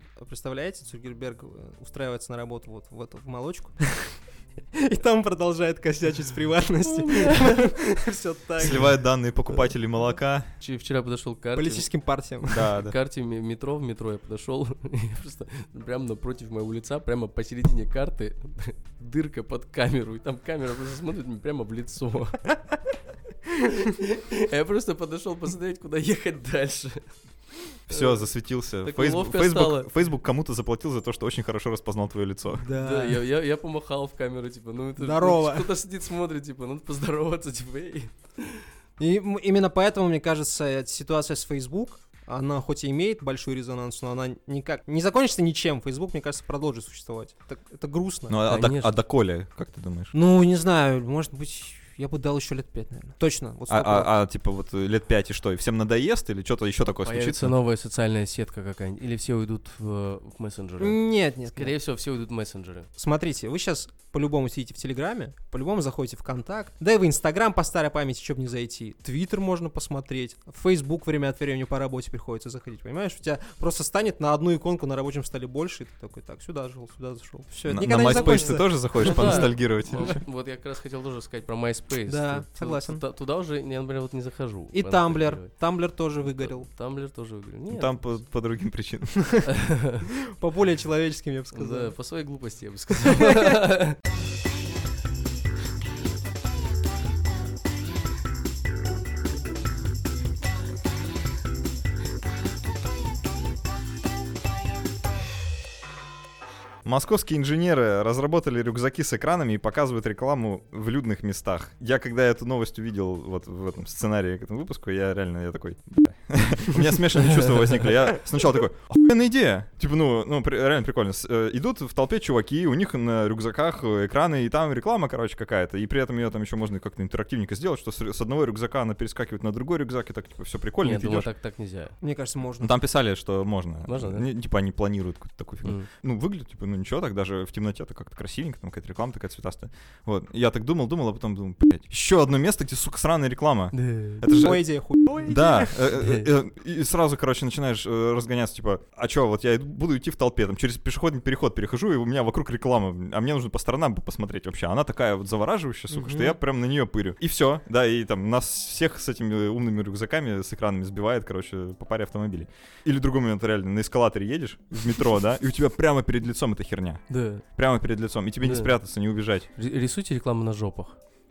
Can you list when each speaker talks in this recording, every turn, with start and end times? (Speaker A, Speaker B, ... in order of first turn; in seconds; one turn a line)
Speaker A: 0.2-4.2
Speaker A: 4.7-8.9
Speaker B: 6.8-7.7
Speaker C: 8.6-10.5
Speaker B: 10.6-11.9
Speaker A: 11.5-12.7
Speaker C: 12.5-12.9
Speaker B: 12.7-22.5
Speaker B: 23.5-27.0
Speaker C: 27.9-32.6
Speaker B: 27.9-28.2
Speaker B: 28.8-29.9
Speaker A: 32.5-33.2
Speaker B: 32.7-38.6
Speaker A: 35.0-35.7
Speaker A: 39.0-48.4
Speaker C: 48.3-50.1
Speaker B: 48.5-48.9
Speaker A: 50.1-54.1
Speaker C: 53.7-57.5
Speaker B: 57.0-61.0
Speaker A: 60.8-61.7
Speaker B: 61.5-62.9
Speaker A: 63.0-79.5
Speaker C: 77.7-80.2
Speaker B: 78.0-85.5
Speaker A: 82.1-83.0
Speaker A: 84.7-86.7
Speaker B: 86.3-88.0
Speaker C: 87.7-89.2
Speaker B: 89.5-90.0
Speaker A: 90.3-91.9
Speaker B: 91.5-94.0
Speaker A: 93.2-93.5
Speaker C: 106.8-131.3
Speaker B: 130.8-131.9
Speaker A: 132.0-132.8
Speaker C: 132.6-144.6
Speaker B: 133.9-134.2
Speaker B: 143.7-144.2
Speaker A: 144.3-145.9
Speaker C: 145.2-167.0
Speaker A: 155.9-156.4
Speaker B: 167.1-167.4
Speaker C: 167.6-169.5
Speaker B: 168.4-168.7
Speaker B: 169.6-170.9